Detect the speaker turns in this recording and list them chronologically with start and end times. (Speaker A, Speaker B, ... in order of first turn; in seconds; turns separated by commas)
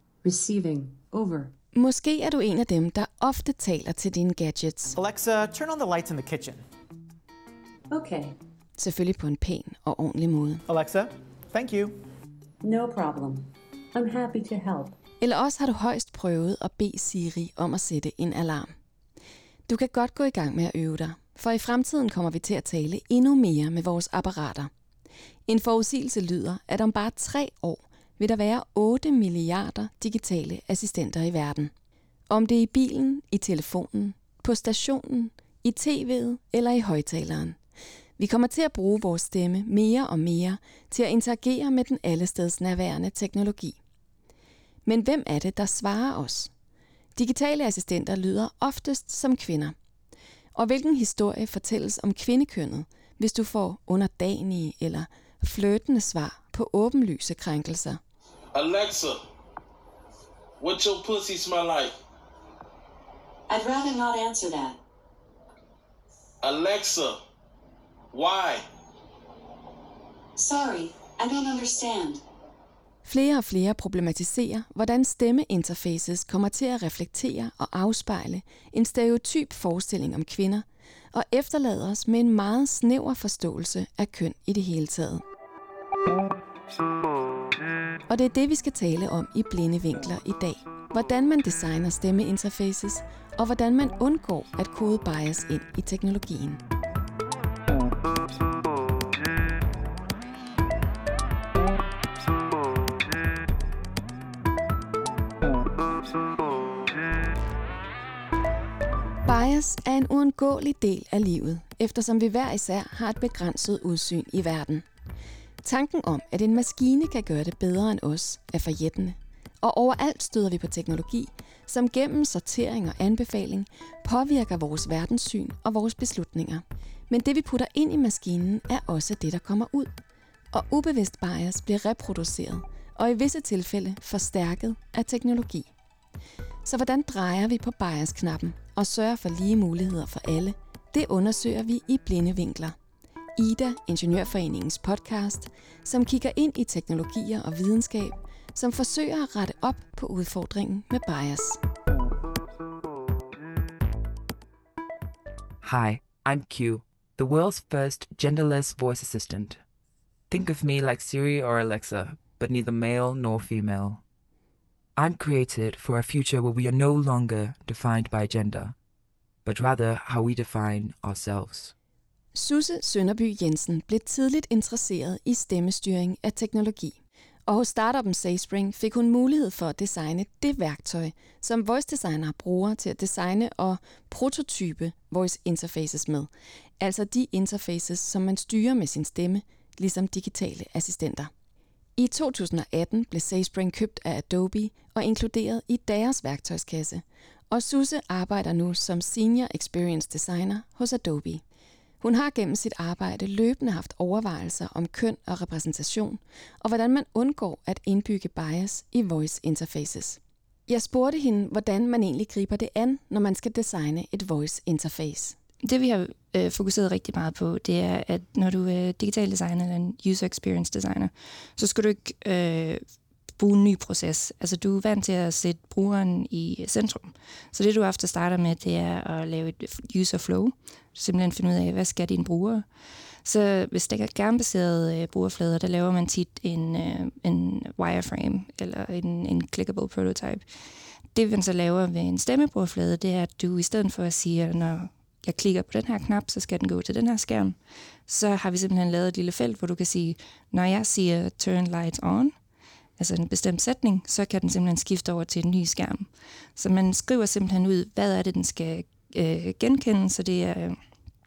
Speaker A: 0.2-1.5, Speaker B: 1.7-5.0, Speaker C: 5.0-6.7, Speaker A: 7.9-8.4, Speaker B: 8.8-10.6, Speaker C: 10.7-12.0, Speaker A: 12.6-15.0, Speaker B: 15.2-18.7, Speaker B: 19.7-24.7, Speaker B: 25.5-31.7, Speaker B: 32.3-37.6, Speaker B: 38.2-43.8, Speaker B: 44.8-46.5, Speaker B: 47.1-49.8, Speaker B: 50.5-58.0, Speaker D: 58.5-59.2, Speaker D: 60.6-62.0, Speaker E: 63.5-64.8, Speaker D: 66.4-67.2, Speaker D: 68.1-68.7, Speaker E: 70.4-72.2, Speaker B: 73.0-85.2, Speaker B: 88.1-96.6, Speaker B: 109.2-114.9, Speaker B: 115.6-129.9, Speaker B: 130.5-135.7, Speaker B: 136.6-142.8, Speaker B: 143.3-151.6, Speaker F: 155.6-159.6, Speaker F: 160.3-164.0, Speaker F: 164.9-168.7, Speaker F: 169.4-171.7, Speaker B: 172.3-191.3, Speaker B: 192.0-201.4, Speaker B: 202.0-215.4, Speaker G: 215.6-222.8, Speaker G: 223.4-232.6, Speaker G: 233.2-240.4, Speaker G: 241.1-252.3, Speaker G: 253.0-260.8